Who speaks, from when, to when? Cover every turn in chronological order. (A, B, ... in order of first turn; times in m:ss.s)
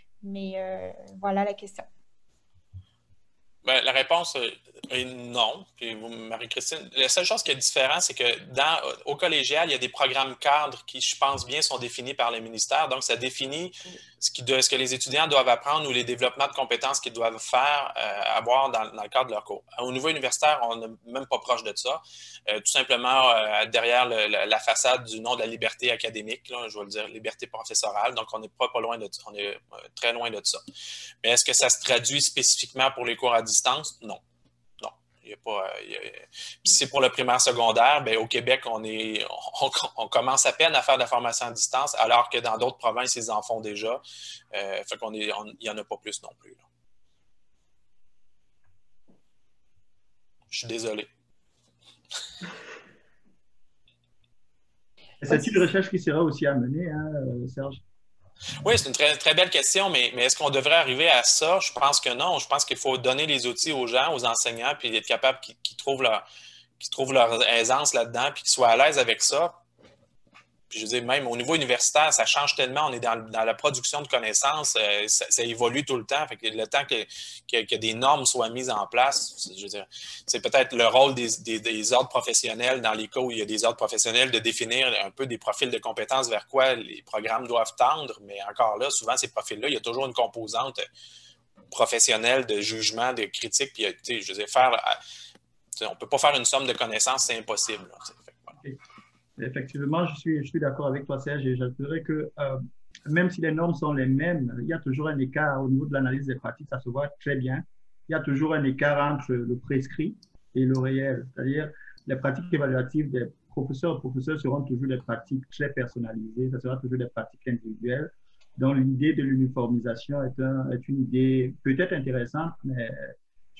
0:00.2-0:01.9 A
0:03.6-0:30.6 B
0:31.2-0:34.2 B
0:34.8-0:46.6 B
0:50.5-0:51.1 B
0:55.2-0:57.8 C
0:55.3-0:55.6 A
0:58.6-1:06.2 B
1:06.8-1:09.6 B
1:10.7-1:30.9 B
1:31.7-1:35.0 B
1:35.8-1:38.6 B
1:39.4-2:03.1 C